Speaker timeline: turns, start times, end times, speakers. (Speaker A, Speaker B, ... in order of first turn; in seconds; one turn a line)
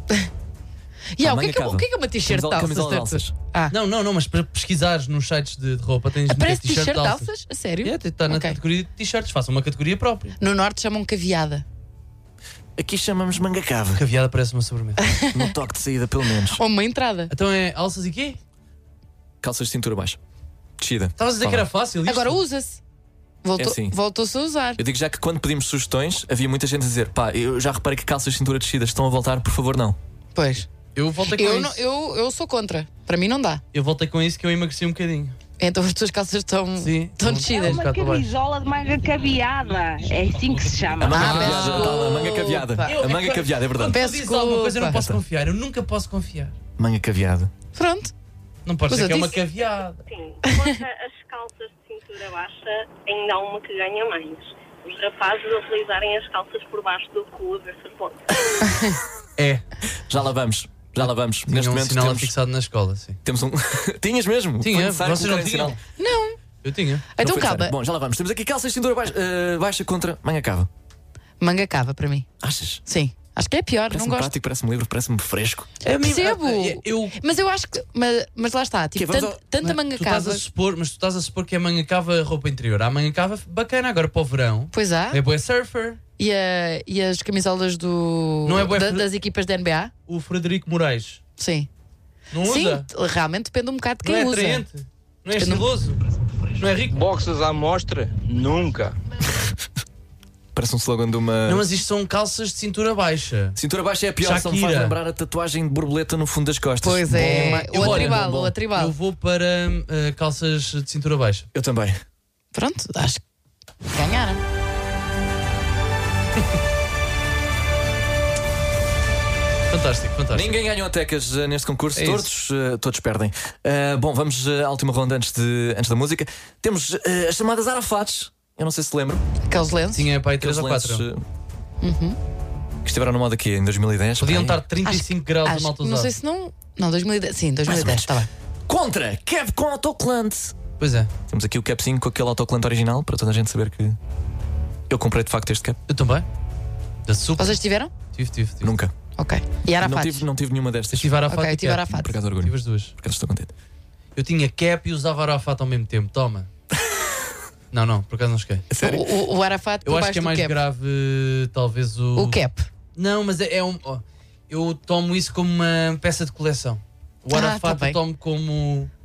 Speaker A: 1.1-3.7
Speaker B: 1.2-3.3
Speaker C: 3.7-7.3
Speaker A: 6.3-8.6
Speaker C: 7.8-10.3
Speaker A: 10.4-11.6
Speaker B: 12.8-14.0
Speaker C: 14.0-15.0
Speaker A: 15.0-15.5
Speaker B: 15.3-16.6
Speaker A: 16.6-17.3
Speaker C: 17.3-18.4
Speaker B: 19.4-20.2
Speaker B: 20.8-21.6
Speaker C: 21.2-22.4
Speaker A: 22.1-22.8
Speaker A: 23.4-24.8
Speaker B: 23.6-23.9
Speaker B: 24.8-30.0
Speaker A: 30.3-30.7
Speaker C: 30.9-31.8
Speaker A: 31.4-33.6
Speaker C: 33.7-35.4
Speaker A: 35.6-37.8
Speaker C: 36.8-38.2
Speaker D: 37.5-41.3
Speaker C: 40.5-42.1
Speaker B: 41.0-44.0
Speaker A: 41.1-43.0
Speaker C: 42.8-46.5
Speaker A: 43.9-45.0
Speaker B: 44.9-45.2
Speaker B: 46.8-47.5
Speaker A: 47.7-48.1
Speaker C: 48.6-50.0
Speaker A: 48.9-49.4
Speaker E: 50.1-58.2
Speaker A: 58.6-59.0
Speaker C: 59.4-59.6
Speaker B: 60.1-62.3
Speaker C: 61.5-63.2
Speaker B: 63.2-65.8
Speaker C: 64.6-65.8
Speaker A: 66.0-66.4
Speaker C: 66.6-67.1
Speaker A: 67.2-67.7
Speaker B: 67.2-70.7
Speaker A: 71.4-72.3
Speaker B: 72.4-72.8
Speaker A: 72.8-74.3
Speaker B: 73.9-75.7
Speaker C: 75.8-77.2
Speaker A: 75.8-80.4
Speaker B: 79.0-79.4
Speaker C: 79.6-86.0
Speaker A: 84.7-85.2
Speaker A: 86.2-89.9
Speaker C: 88.4-89.1
Speaker C: 90.1-91.2
Speaker A: 91.4-91.7
Speaker C: 92.3-92.9
Speaker A: 92.5-94.6
Speaker C: 94.0-96.0
Speaker A: 95.4-95.7
Speaker C: 96.6-97.0
Speaker B: 100.5-101.7
Speaker C: 101.5-103.6
Speaker B: 103.5-108.5
Speaker C: 104.2-105.0
Speaker A: 106.8-108.9
Speaker C: 107.1-111.5
Speaker B: 111.5-112.0
Speaker A: 112.5-113.2
Speaker A: 113.9-114.4
Speaker C: 119.7-120.6
Speaker B: 120.3-129.2
Speaker C: 122.0-122.3
Speaker A: 129.5-130.0
Speaker C: 129.9-131.0
Speaker B: 130.4-131.2
Speaker A: 131.8-132.2
Speaker B: 132.8-134.6
Speaker C: 134.2-136.1
Speaker A: 134.8-138.3
Speaker B: 137.7-138.1
Speaker B: 138.7-140.6
Speaker C: 140.8-141.1
Speaker B: 141.3-144.0
Speaker B: 144.9-145.8
Speaker C: 145.9-146.2
Speaker C: 147.1-148.7
Speaker A: 147.4-147.9
Speaker B: 148.6-148.9
Speaker A: 149.2-150.2
Speaker B: 149.8-151.1
Speaker C: 150.9-152.9
Speaker A: 151.3-152.1
Speaker B: 151.9-153.5
Speaker C: 154.2-156.5
Speaker C: 157.7-158.7
Speaker B: 158.7-159.1
Speaker A: 158.8-160.6
Speaker C: 159.8-162.4
Speaker A: 162.2-162.7
Speaker C: 162.9-168.9
Speaker A: 167.3-168.0